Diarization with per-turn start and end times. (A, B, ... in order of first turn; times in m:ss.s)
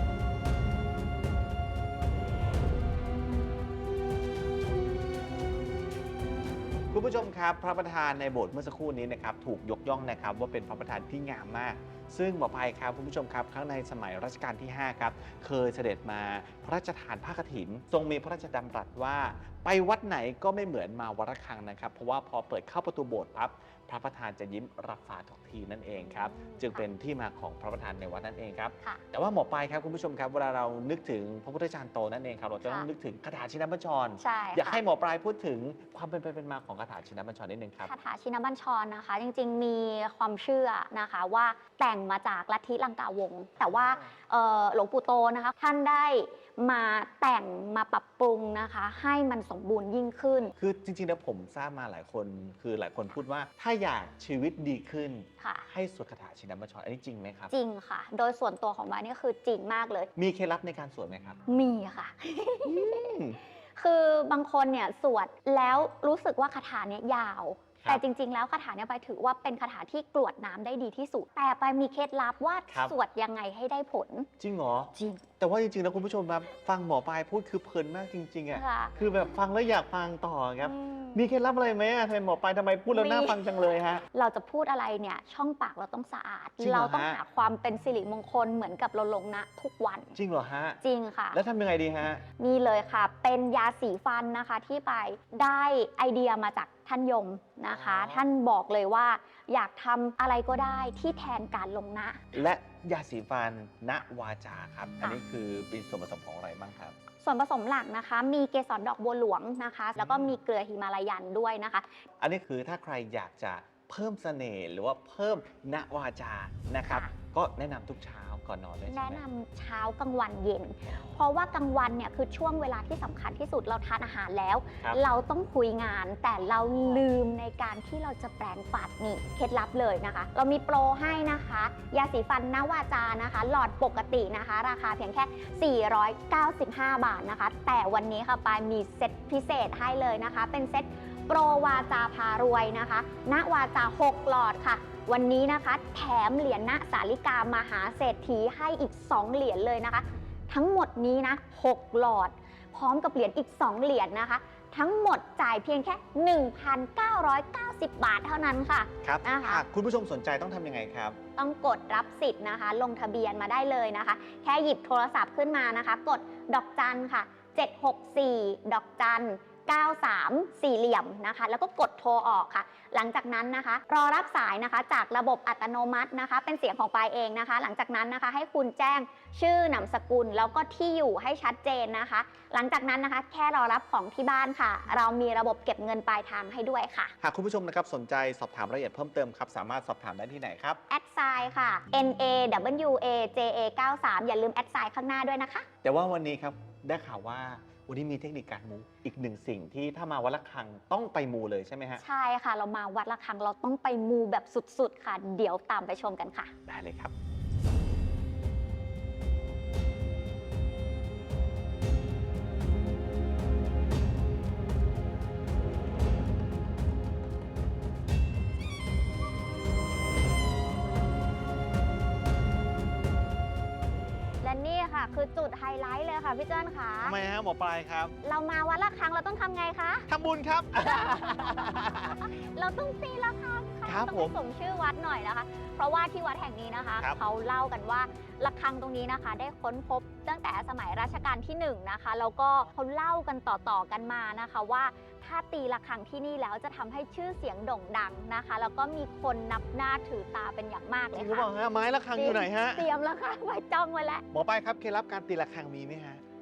0:06.9-0:37.9 A
0:26.0-0:26.8 B
0:32.6-0:32.9 B
0:34.2-0:34.8 B
0:37.8-0:50.5 B
0:43.6-0:43.9 A
0:50.6-0:57.5 A
0:55.4-0:55.7 B
0:57.5-1:00.1 B
1:00.2-1:01.4 A
1:01.5-1:14.3 B
1:02.6-1:03.4 A
1:12.7-1:12.9 A
1:14.4-1:24.0 A
1:14.9-1:15.2 B
1:18.5-1:19.0 B
1:20.6-1:21.2 B
1:22.9-1:23.6 B
1:24.1-1:30.1 B
1:26.6-1:27.2 A
1:30.1-1:30.8 A
1:30.8-1:31.4 B
1:31.3-1:32.2 A
1:32.4-1:42.2 B
1:37.7-1:38.2 A
1:42.3-1:47.0 A
1:47.2-1:52.0 B
1:50.0-1:50.3 A
1:52.2-1:59.2 A
1:56.9-1:57.1 B
1:58.9-2:39.6 B
2:39.0-2:41.2 A
2:41.4-3:07.1 B
3:07.2-3:10.8 A
3:10.9-3:15.7 B
3:15.8-3:22.0 A
3:22.0-3:26.5 B
3:26.7-3:27.1 A
3:44.4-3:47.1 B
3:47.0-3:48.1 A
3:48.2-3:50.1 B
3:50.1-3:52.2 A
3:50.8-4:11.5 B
3:53.8-3:54.4 A
4:11.1-4:12.9 A
4:12.1-4:14.2 B
4:14.3-4:16.2 A